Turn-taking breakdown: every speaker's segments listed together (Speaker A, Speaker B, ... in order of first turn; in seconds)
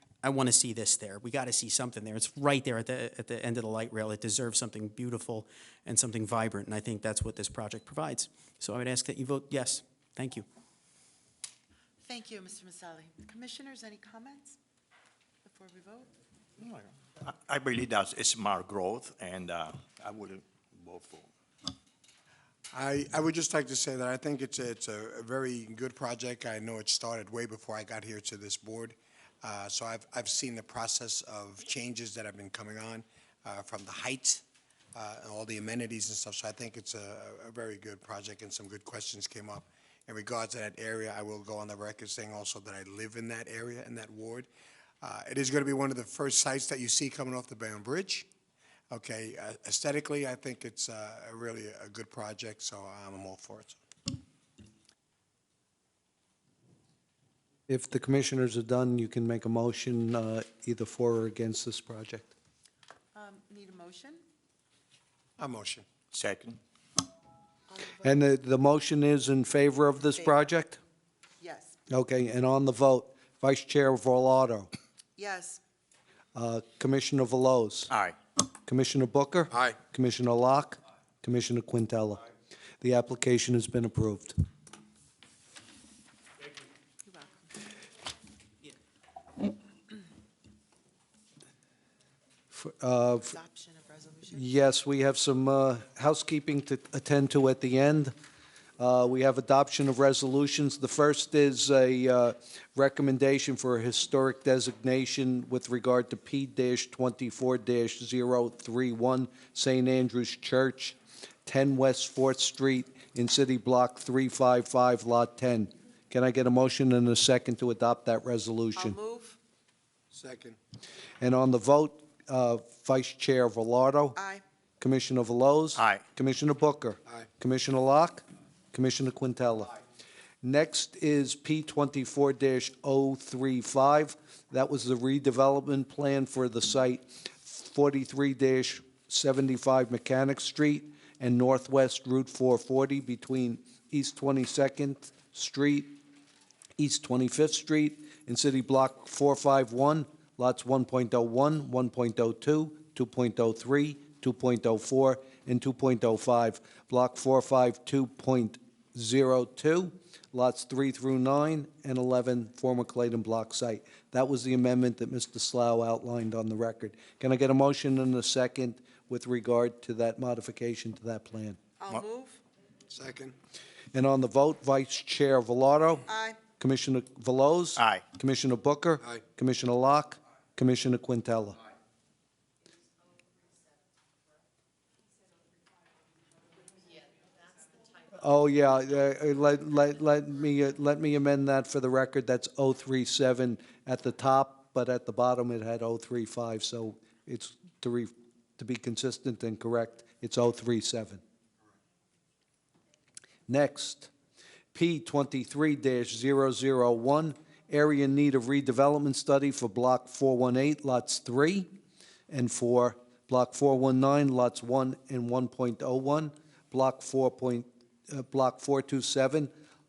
Speaker A: 0.2-10.4
Speaker B: 12.0-14.6, 15.4-16.1, 63.1-64.2, 67.7-68.0, 71.4-71.7, 75.2-75.6, 87.0-87.5, 93.3-94.4, 118.8-119.4, 124.2-124.4, 171.8-172.4, 176.1-176.4
Speaker C: 16.6-21.3, 66.1-66.6, 77.9-78.1, 125.8-126.0, 177.8-178.0
Speaker D: 22.7-34.4, 34.9-44.5, 45.0-48.3, 48.9-53.8, 65.4-65.8, 120.1-120.6, 172.9-173.3
Speaker E: 57.7-62.3, 68.0-70.8, 71.9-74.7, 76.3-77.9, 78.6-82.2, 82.8-84.3, 92.5-93.4, 94.3-98.1, 98.8-119.0, 121.2-124.2, 124.8-129.8, 130.4-146.0, 146.8-171.6, 173.9-181.6, 188.1-201.2, 203.5-204.1, 204.7-211.7, 212.3-219.5